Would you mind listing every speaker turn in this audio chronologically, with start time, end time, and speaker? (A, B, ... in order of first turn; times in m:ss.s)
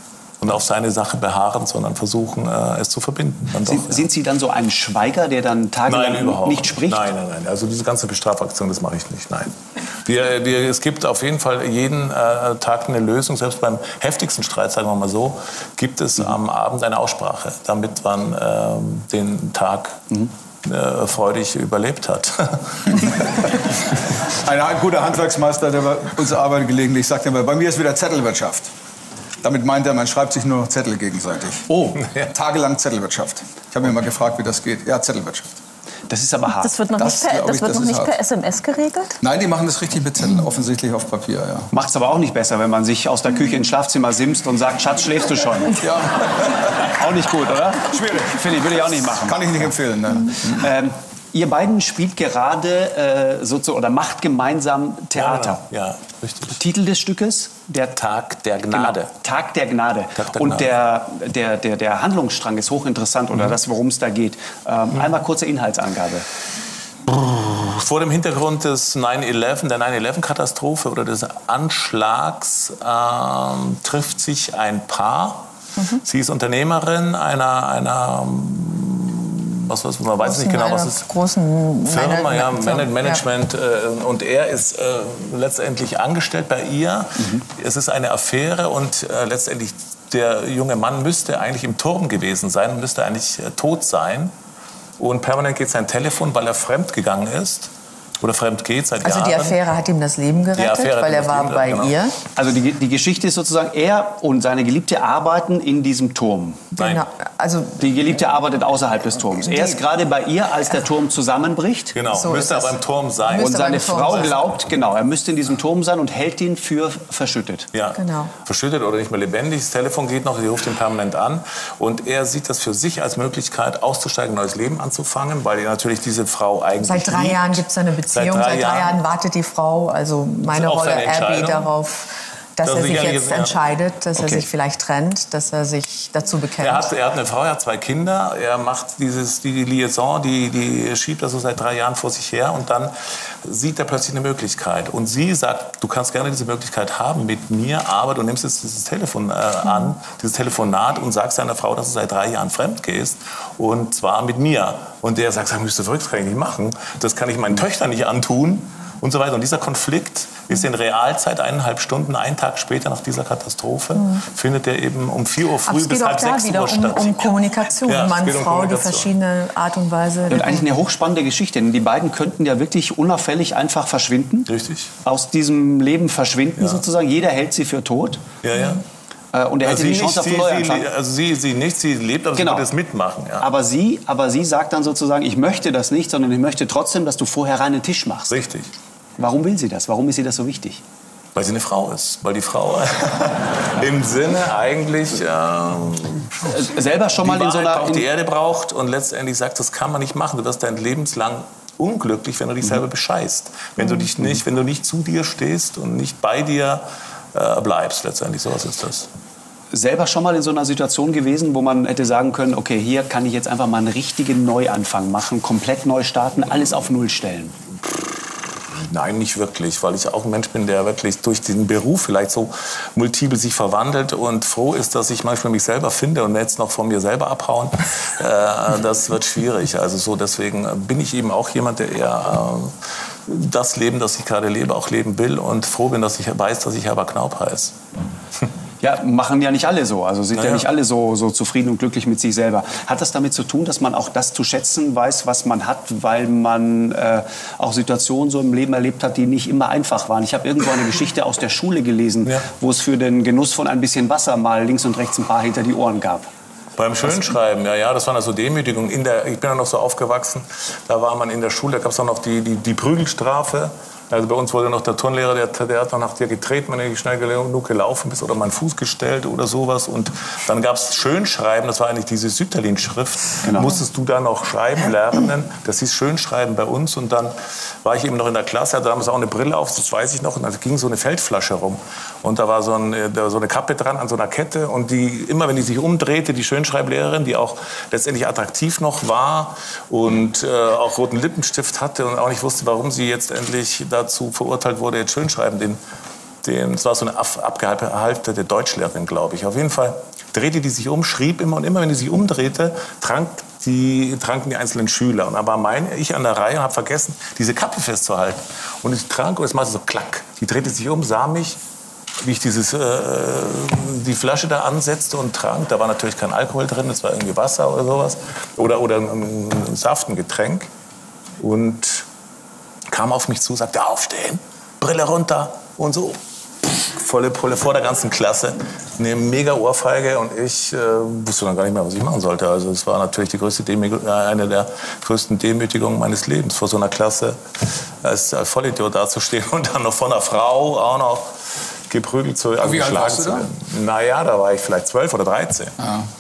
0:00.4-0:04.1 A
0:03.6-0:07.1 B
0:05.9-0:20.1 A
0:20.6-0:23.7 A
0:24.3-0:28.7 C
0:29.4-0:35.5 C
0:32.0-0:32.3 A
0:36.1-0:36.7 B
0:36.6-0:39.2 D
0:37.0-0:38.2 C
0:39.2-0:41.7 C
0:41.7-0:45.8 B
0:45.8-0:46.9 C
0:46.8-0:49.7 B
0:47.9-0:50.7 C
0:50.4-0:55.6 B
0:55.2-0:56.6 A
0:56.5-0:58.0 B
0:58.0-0:59.1 A
0:58.7-1:06.2 B
1:00.2-1:00.7 A
1:07.1-1:15.4 A
1:16.0-1:21.0 A
1:20.2-1:23.2 E
1:21.9-1:34.3 A
1:35.0-1:39.6 A
1:39.0-1:42.1 E
1:40.6-1:42.0 A
1:42.4-1:46.6 B
1:46.7-1:48.2 E
1:46.8-1:47.0 A
1:47.8-1:52.0 B
1:49.3-1:49.8 E
1:51.9-1:54.3 A
1:52.1-1:54.5 E
1:53.4-1:57.7 B
1:57.7-2:09.0 A
1:58.0-1:58.3 E
2:06.8-2:16.9 E
2:10.5-2:11.7 A
2:12.6-2:13.6 A
2:14.2-2:14.4 B
2:16.6-2:49.1 A
2:44.0-2:44.2 E
2:45.7-2:50.7 E
2:50.3-2:54.5 B
2:54.5-2:54.9 A
2:55.0-2:58.2 B
2:58.4-2:58.8 A
2:59.3-3:00.9 B
2:59.6-3:03.5 A
3:02.4-3:02.7 B
3:03.4-3:08.3 B
3:08.3-3:08.7 A
3:09.2-3:10.8 B
3:11.4-3:16.5 A
3:16.4-3:18.1 B
3:17.2-3:29.1 A
3:29.7-3:37.6 B
3:38.8-3:57.8 A
3:58.8-4:16.3 B
4:00.3-4:00.7 A
4:16.8-4:55.8 A
4:33.4-4:33.7 B
4:56.4-5:11.6 A
5:12.2-5:20.7 A
5:21.4-5:22.1 A
5:22.9-5:26.2 A
5:26.8-5:37.4 A
5:38.0-5:41.3 A
5:41.9-5:45.9 A
5:42.6-5:43.5 C
5:45.8-5:46.1 C